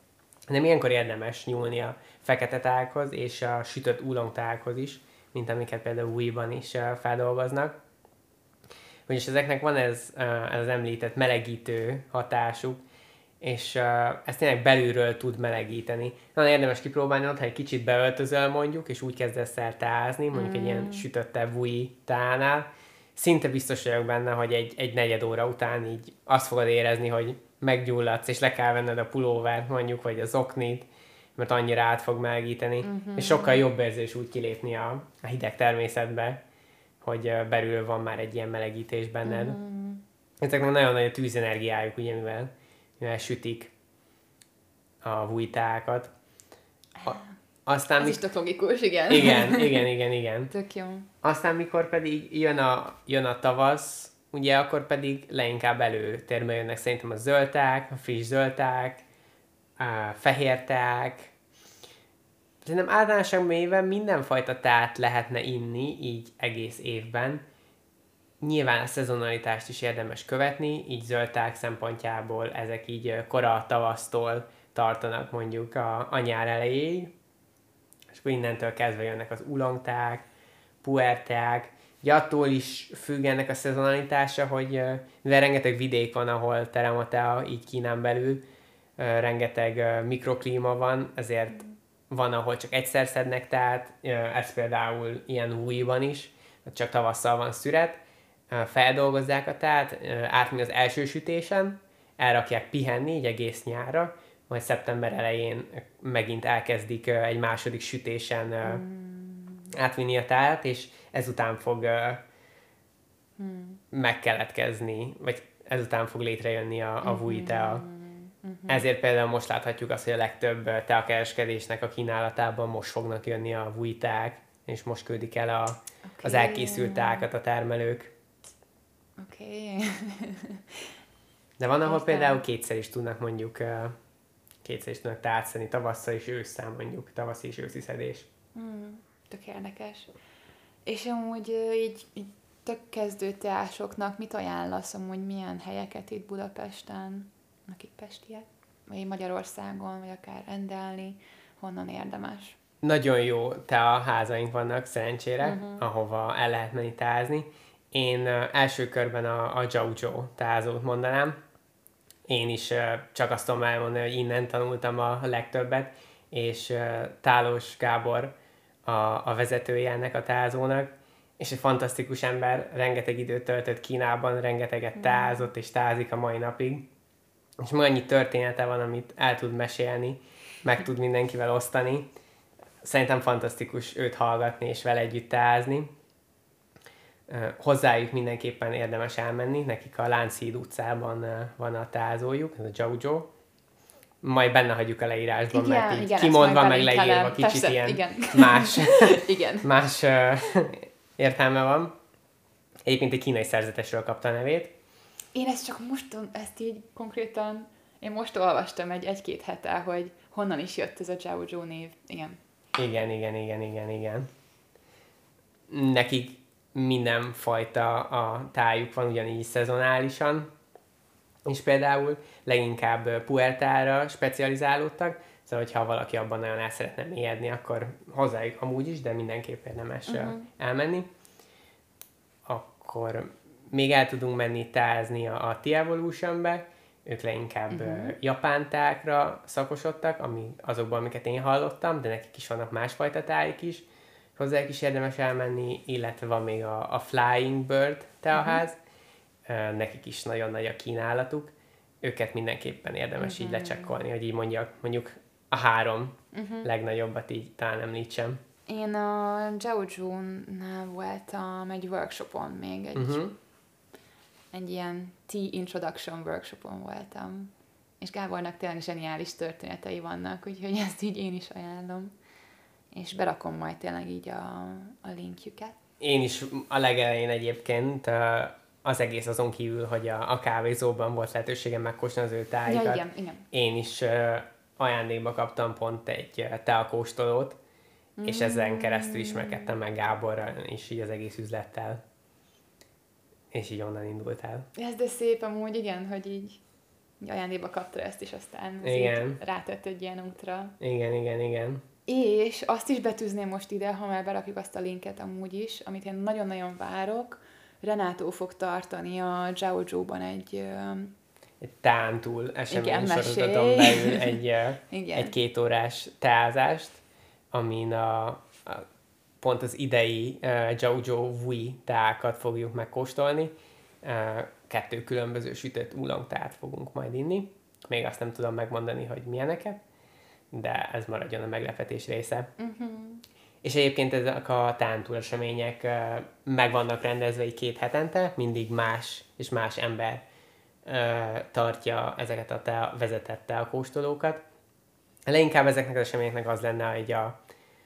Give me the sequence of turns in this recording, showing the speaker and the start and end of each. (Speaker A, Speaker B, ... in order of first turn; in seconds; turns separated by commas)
Speaker A: 0.5-7.8, Speaker A: 9.1-12.8, Speaker A: 13.4-36.4, Speaker B: 20.3-21.1, Speaker B: 32.8-33.6, Speaker A: 37.0-39.6, Speaker B: 39.2-40.0, Speaker A: 40.4-43.7, Speaker A: 45.0-46.1, Speaker A: 47.0-48.2, Speaker B: 48.0-49.9, Speaker A: 49.1-50.5, Speaker B: 50.5-51.1, Speaker A: 51.2-59.0, Speaker A: 59.8-61.3, Speaker A: 62.6-67.4, Speaker A: 68.4-77.1, Speaker A: 78.1-80.2, Speaker A: 80.8-88.4, Speaker A: 89.0-108.8, Speaker B: 108.6-109.7, Speaker A: 109.7-112.2, Speaker B: 113.4-113.8, Speaker A: 113.9-117.8, Speaker B: 117.0-118.8, Speaker A: 118.7-128.1, Speaker B: 126.1-127.3, Speaker B: 129.2-130.9, Speaker A: 131.6-133.9, Speaker B: 131.8-132.4, Speaker A: 134.6-138.3, Speaker B: 138.5-140.1, Speaker B: 140.8-152.6, Speaker A: 152.8-161.4, Speaker B: 155.4-155.8, Speaker A: 162.3-176.9, Speaker B: 174.9-175.5, Speaker A: 177.6-182.1, Speaker A: 182.8-185.9, Speaker A: 187.3-193.3, Speaker A: 194.2-201.9, Speaker B: 195.5-199.7, Speaker A: 202.8-204.7, Speaker B: 205.3-212.4, Speaker A: 212.7-214.3, Speaker A: 215.7-220.5, Speaker A: 221.4-231.1, Speaker B: 230.1-230.5, Speaker A: 232.4-243.8, Speaker B: 237.7-238.1, Speaker A: 244.3-248.8, Speaker B: 248.3-248.6, Speaker A: 249.5-258.4, Speaker B: 253.2-254.0, Speaker B: 256.3-256.7, Speaker B: 258.7-263.2, Speaker A: 262.9-263.3, Speaker B: 264.5-272.1, Speaker B: 272.9-275.8, Speaker A: 276.0-287.6, Speaker B: 282.6-283.4, Speaker B: 288.2-289.7, Speaker A: 288.2-292.0, Speaker A: 293.5-294.7, Speaker B: 294.7-296.6, Speaker B: 297.2-300.8, Speaker A: 298.8-299.4, Speaker A: 300.8-301.8, Speaker B: 302.1-311.1, Speaker A: 311.6-318.8, Speaker B: 312.7-315.3, Speaker A: 319.4-329.8, Speaker A: 330.5-332.5, Speaker B: 332.6-333.2, Speaker A: 333.6-340.2, Speaker A: 340.8-344.4, Speaker A: 345.3-347.4